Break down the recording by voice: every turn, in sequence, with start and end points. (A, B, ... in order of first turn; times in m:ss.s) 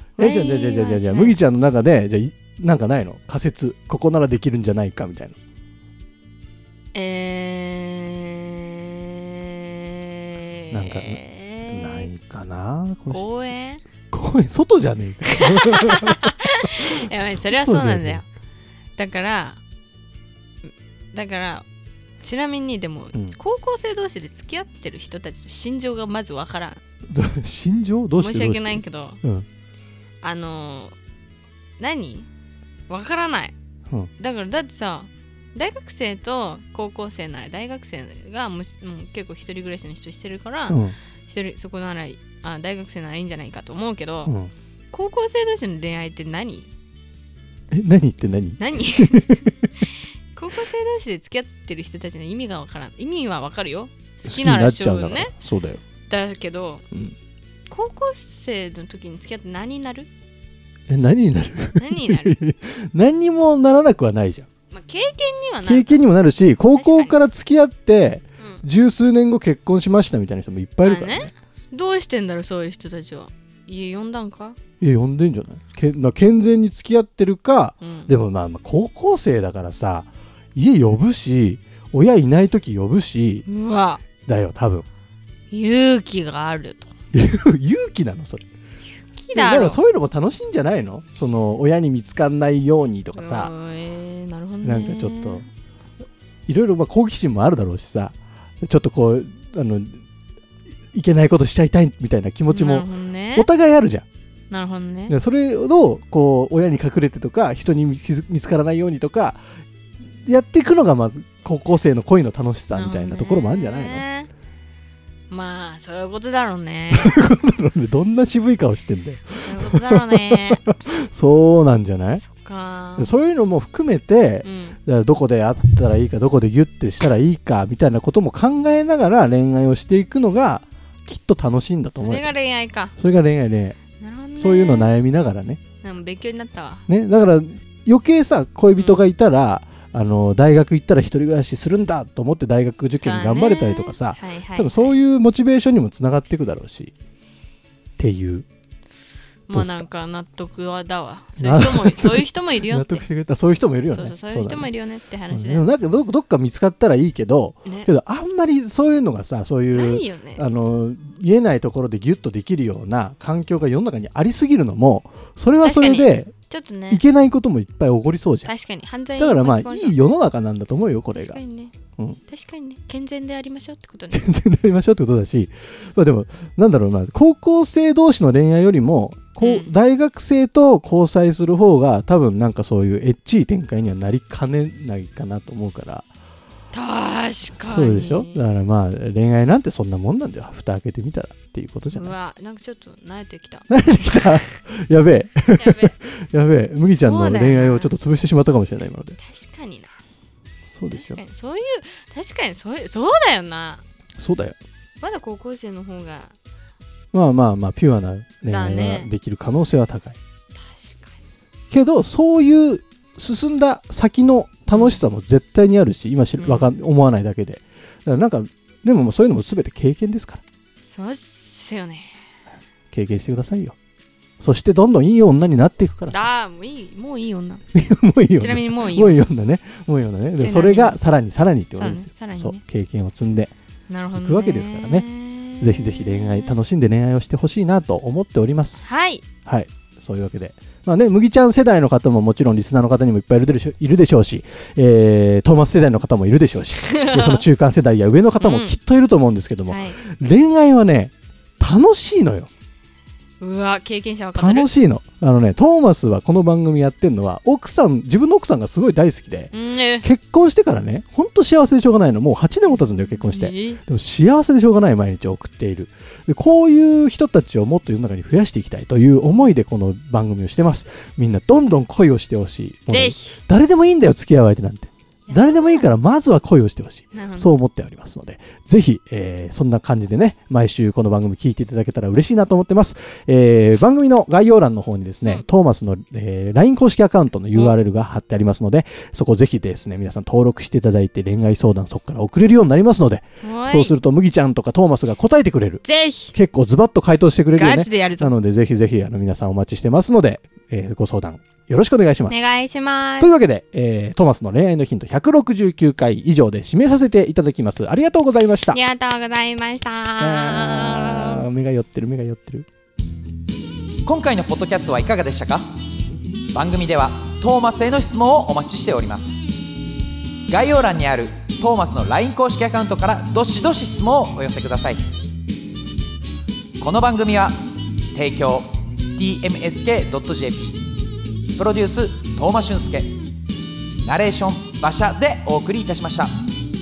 0:00.2-0:05.4 A
0:00.2-0:01.4 B
0:06.9-0:12.1 B
0:10.7-0:13.5 A
0:13.1-0:13.8 B
0:14.1-0:18.2 A
0:15.4-0:18.2 B
0:19.0-0:19.6 B
0:21.1-0:21.6 B
0:22.2-0:26.8 B
0:27.1-0:29.4 A
0:28.2-0:29.2 B
0:30.2-0:31.0 B
0:31.8-0:32.3 B
0:32.9-0:33.5 B
0:34.2-0:44.3 B
0:40.7-0:41.0 A
0:44.2-0:44.5 A
0:44.9-0:46.7 B
0:47.7-0:49.5 A
0:48.6-0:55.3 B
0:54.2-0:55.8 A
0:56.1-0:56.8 B
0:57.7-1:00.1 B
1:00.9-1:04.5 A
1:01.8-1:02.4 B
1:04.7-1:06.0 B
1:05.6-1:11.3 A
1:06.8-1:07.2 B
1:10.8-1:14.6 B
1:14.8-1:23.4 A
1:17.8-1:18.1 B
1:23.5-1:24.0 B
1:24.2-1:24.8 A
1:25.5-1:26.9 B
1:27.1-1:28.4 A
1:29.2-1:29.8 B
1:29.3-1:33.5 A
1:33.1-1:35.5 B
1:34.6-1:35.4 A
1:36.5-1:40.0 A
1:40.9-1:44.0 A
1:42.5-1:43.5 B
1:44.5-1:45.1 B
1:45.1-1:49.4 A
1:50.2-1:54.0 A
1:52.7-1:54.3 B
1:55.3-1:57.2 B
1:56.9-2:02.2 A
1:59.4-2:00.6 B
2:02.1-2:03.1 B
2:03.0-2:12.3 A
2:04.4-2:04.8 B
2:11.9-2:12.9 B
2:13.0-2:13.8 A
2:14.0-2:15.0 B
2:14.4-2:15.6 A
2:15.8-2:16.8 B
2:16.9-2:26.9 A
2:18.7-2:19.1 B
2:23.0-2:25.0 B
2:28.0-2:28.4 A
2:29.5-2:33.0 B
2:29.5-2:29.8 A
2:31.4-2:34.7 A
2:33.9-2:35.7 B
2:35.3-2:46.3 A
2:39.7-2:40.4 B
2:45.6-2:47.0 B
2:46.9-2:48.5 A
2:48.4-2:50.1 B
2:49.2-2:51.4 A
2:51.2-2:51.8 B
2:52.3-2:54.3 B
2:54.1-3:06.0 A
2:59.4-2:59.7 B
3:06.7-3:08.4 B
3:07.7-3:12.1 A
3:11.9-3:13.7 B
3:13.7-3:19.2 A
3:15.6-3:16.0 B
3:17.0-3:17.9 B
3:19.2-3:20.0 B
3:20.7-3:21.2 A
3:20.9-3:23.8 B
3:24.2-3:24.6 A
3:25.0-3:26.3 B
3:27.1-3:30.2 A
3:28.5-3:29.1 B
3:30.6-3:31.2 B
3:31.7-3:40.4 A
3:34.7-3:35.0 B
3:36.4-3:36.7 B
3:40.8-3:42.2 B
3:42.9-3:43.8 A
3:44.4-3:46.2 A
3:46.1-3:47.6 B
3:47.7-3:53.5 A
3:48.4-3:49.2 B
3:50.4-3:51.0 B
3:51.7-3:52.6 B
3:53.9-3:56.6 B
3:54.1-3:55.0 A
3:55.6-3:58.8 A
3:58.8-3:59.2 B
3:59.4-4:12.5 A
4:06.9-4:07.4 B
4:08.4-4:08.8 B
4:09.7-4:10.0 B
4:13.4-4:14.7 B
4:14.4-5:02.4 A
4:19.5-4:20.1 B
4:23.2-4:23.8 B
4:32.9-4:33.4 B
4:35.3-4:35.9 B
4:37.1-4:37.6 B
4:53.4-4:53.9 B
4:55.8-4:56.3 B
4:57.5-4:58.3 B
5:02.3-5:03.4 B
5:03.2-5:08.8 A
5:08.7-5:11.4 B
5:10.2-5:12.6 A
5:14.0-5:15.7 C
5:16.5-5:19.4 C
5:20.5-5:25.0 C
5:26.8-5:27.5 C
5:28.1-5:30.8 C
5:31.5-5:33.1 C
5:34.0-5:36.3 C